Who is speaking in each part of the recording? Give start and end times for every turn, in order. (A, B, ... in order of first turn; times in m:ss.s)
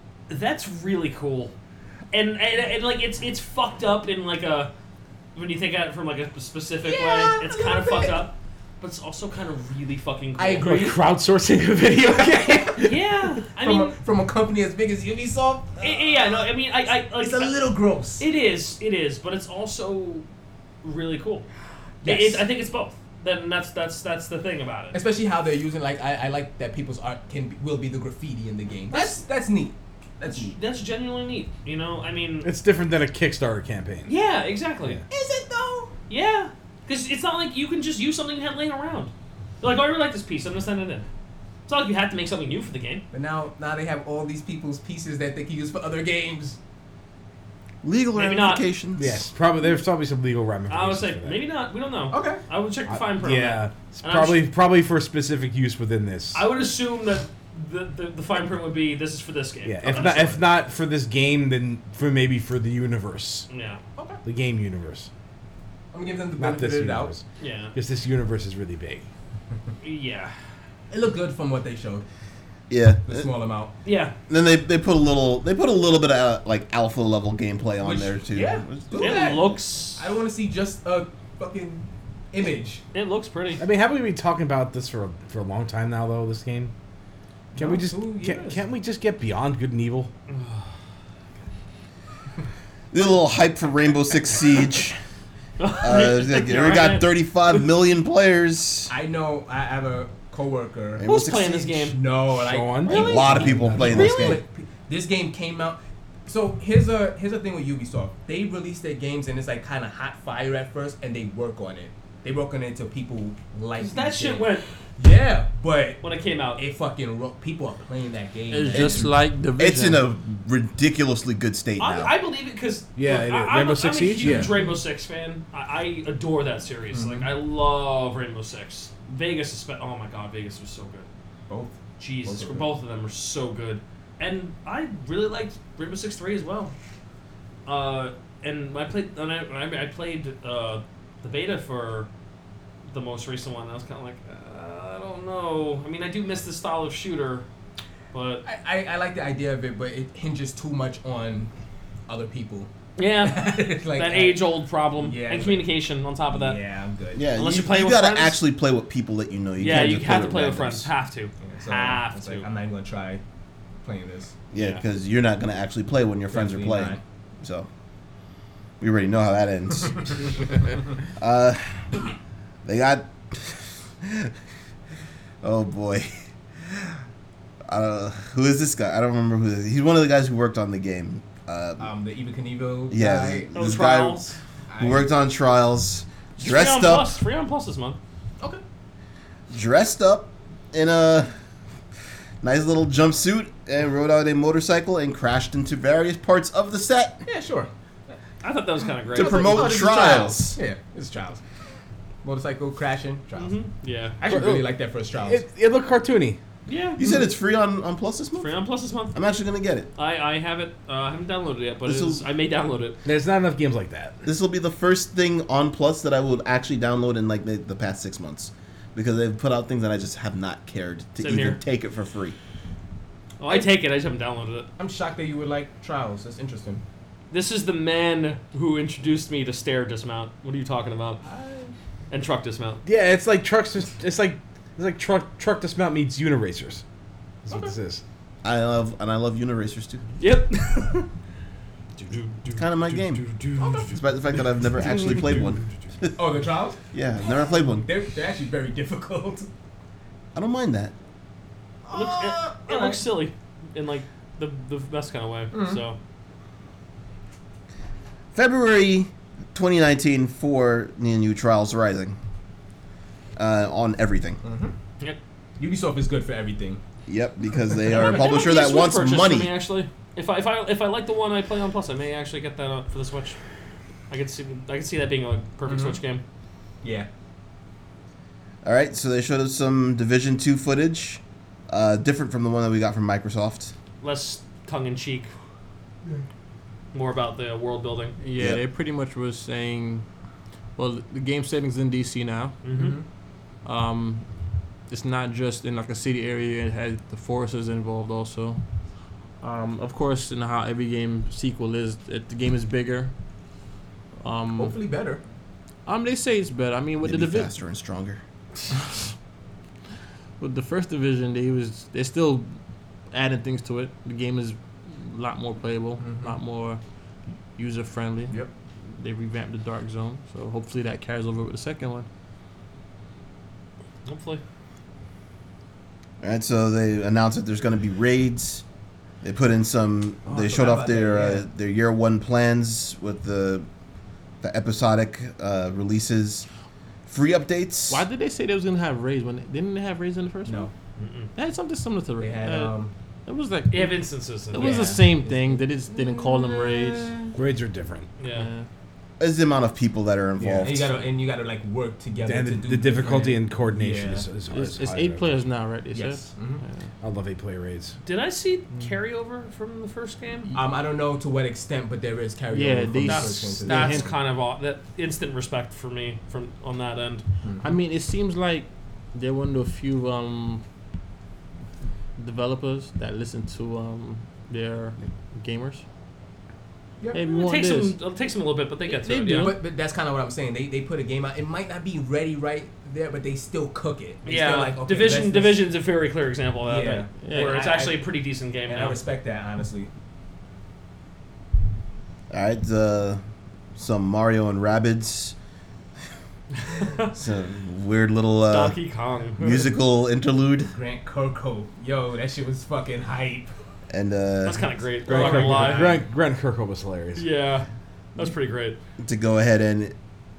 0:00.3-0:01.6 A
0:02.1-0:04.7 A
0:05.4-0:11.0 A
0:06.8-0:08.3 B
0:10.4-0:11.0 B
0:10.6-0:13.3 C
0:12.1-0:12.8 B
0:12.8-0:14.0 A
0:13.6-0:15.9 B
0:15.8-0:17.6 A
0:17.2-0:18.2 B
0:18.2-0:20.3 A
0:20.8-0:21.5 A
0:22.0-0:22.4 B
0:22.0-0:25.0 A
0:24.9-0:30.6 B
0:28.9-0:29.2 A
0:30.3-0:32.5 A
0:32.4-0:34.1 C
0:34.1-0:35.0 A
0:35.1-0:35.9 B
0:36.1-0:41.1 A
0:41.7-0:43.0 A
0:43.1-0:46.6 B
0:47.8-0:49.2 D
0:48.2-0:48.7 A
0:49.0-0:51.4 C
0:50.7-0:54.4 A
0:52.1-0:52.4 B
0:52.9-0:56.4 C
0:56.3-1:00.5 A
0:59.6-1:03.5 C
1:03.5-1:03.8 A
1:04.2-1:05.1 C
1:05.9-1:07.2 B
1:06.4-1:07.2 C
1:07.4-1:07.8 A
1:07.7-1:09.1 C
1:09.8-1:10.3 A
1:10.9-1:12.0 B
1:12.7-1:13.3 D
1:13.1-1:13.7 B
1:13.8-1:14.1 A
1:14.3-1:19.3 D
1:17.8-1:22.8 B
1:18.9-1:20.0 A
1:22.9-1:23.6 A
1:23.6-1:26.7 C
1:27.5-1:28.6 B
1:27.6-1:30.1 C
1:30.3-1:30.6 A
1:32.9-1:35.0 D
1:35.6-1:37.1 A
1:35.8-1:38.9 D
1:38.9-1:56.0 B
1:41.0-1:41.6 D
1:41.0-1:42.0 A
1:42.3-1:44.1 C
1:42.8-1:44.4 A
1:42.9-1:44.4 D
1:53.8-1:54.7 A
1:56.0-1:56.6 A
1:56.6-1:59.2 B
1:58.5-2:00.0 E
1:58.7-2:02.1 D
2:01.8-2:11.1 A
2:03.0-2:04.5 C
2:04.2-2:04.8 B
2:06.9-2:07.3 B
2:11.5-2:12.7 B
2:12.0-2:16.7 A
2:17.7-2:22.1 A
2:22.9-2:27.5 A
2:28.1-2:28.4 A
2:28.4-2:31.5 B
2:32.1-2:32.7 B
2:33.0-2:36.6 A
2:33.2-2:34.4 B
2:35.0-2:35.7 B
2:36.3-2:37.2 B
2:37.2-2:40.9 D
2:37.4-2:38.4 A
2:39.6-2:42.5 A
2:41.4-2:43.2 B
2:43.8-2:44.3 B
2:44.5-2:47.7 D
2:44.6-2:44.8 A
2:46.3-2:47.0 B
2:48.8-2:50.6 D
2:51.2-2:52.0 D
2:52.6-2:54.3 D
2:55.4-2:56.9 D
2:57.7-3:01.9 D
3:01.8-3:03.5 B
3:02.9-3:04.2 D
3:03.5-3:04.4 A
3:04.7-3:05.1 B
3:04.8-3:07.1 D
3:06.4-3:08.0 A
3:09.5-3:11.3 D
3:12.4-3:17.2 D
3:17.2-3:18.2 B
3:18.4-3:20.0 A
3:19.1-3:21.4 B
3:19.1-3:20.6 D
3:22.2-3:23.6 B
3:23.4-3:24.2 A
3:24.2-3:25.4 B
3:24.2-3:26.4 C
3:26.7-3:27.0 A
3:27.0-3:28.6 D
3:28.4-3:29.2 A
3:29.1-3:29.9 D
3:30.0-3:33.0 A
3:31.8-3:32.2 D
3:33.0-3:34.2 C
3:34.2-3:42.4 D
3:41.2-3:41.6 A
3:43.4-3:44.7 A
3:44.8-3:46.8 B
3:47.3-3:51.2 A
3:51.2-3:51.7 B
3:52.1-3:52.8 A
3:52.8-3:56.8 C
3:57.4-3:58.0 C
3:58.4-4:00.1 D
4:00.2-4:01.1 A
4:02.0-4:04.0 C
4:02.6-4:03.2 D
4:03.6-4:03.9 B
4:03.9-4:06.2 D
4:04.9-4:05.6 C
4:06.2-4:06.8 B
4:06.9-4:07.9 D
4:07.7-4:09.5 B
4:10.4-4:10.9 D
4:11.9-4:13.0 B
4:11.9-4:16.0 A
4:15.5-4:15.8 B
4:18.4-4:22.2 D
4:23.4-4:24.4 D
4:24.4-4:24.7 B
4:25.6-4:26.8 B
4:27.1-4:29.5 D
4:27.9-4:33.4 A
4:34.1-4:36.2 A
4:35.7-4:36.0 B
4:36.8-4:37.1 B
4:38.6-4:43.7 D
4:44.0-4:45.3 A
4:46.9-4:48.2 A
4:48.2-4:50.0 E
4:48.4-4:48.6 D
4:50.8-4:52.6 E
4:52.6-4:53.0 A
4:52.7-4:53.0 B
4:53.6-4:54.3 E
4:54.9-4:58.6 E
4:59.4-5:03.1 E
5:04.2-5:04.8 E
5:04.6-5:05.2 B
5:05.9-5:07.5 E
5:07.0-5:08.2 D
5:10.4-5:12.5 E
5:13.1-5:16.8 E
5:16.0-5:16.4 B
5:17.6-5:22.1 E
5:24.0-5:24.4 A
5:26.2-5:28.6 D
5:29.2-5:33.7 D
5:30.3-5:31.5 B
5:34.4-5:36.5 D
5:37.1-5:38.0 D
5:37.9-5:40.7 E
5:40.5-5:40.7 B
5:41.0-5:41.3 A
5:41.4-5:47.4 E
5:42.2-5:42.9 B
5:43.7-5:45.0 A
5:44.5-5:47.1 B
5:47.3-5:48.1 C
5:48.2-5:48.5 A
5:48.3-5:48.7 E
5:49.2-5:50.9 D
5:50.5-5:54.3 B
5:52.3-5:55.4 C
5:54.5-5:56.8 E
5:55.9-5:56.6 B
5:57.0-5:58.0 C
5:58.0-6:00.6 A
6:00.5-6:04.1 B
6:02.5-6:04.1 E
6:03.0-6:07.2 A
6:07.4-6:07.7 B
6:07.6-6:10.6 E
6:12.2-6:15.8 E
6:17.1-6:18.0 E
6:17.2-6:19.6 A
6:18.9-6:19.6 E
6:19.3-6:25.7 B
6:24.2-6:29.0 A
6:26.7-6:28.1 B
6:27.2-6:27.7 E
6:28.7-6:29.9 B
6:32.3-6:33.2 D
6:33.8-6:35.4 D
6:36.7-6:37.1 A
6:37.1-6:38.8 D
6:38.5-6:39.7 A
6:39.4-6:40.7 D
6:40.7-6:43.5 B
6:43.9-6:44.7 D
6:44.4-6:46.0 A
6:45.1-6:47.3 C
6:45.1-6:46.0 B
6:47.2-6:48.8 A
6:49.0-6:50.0 D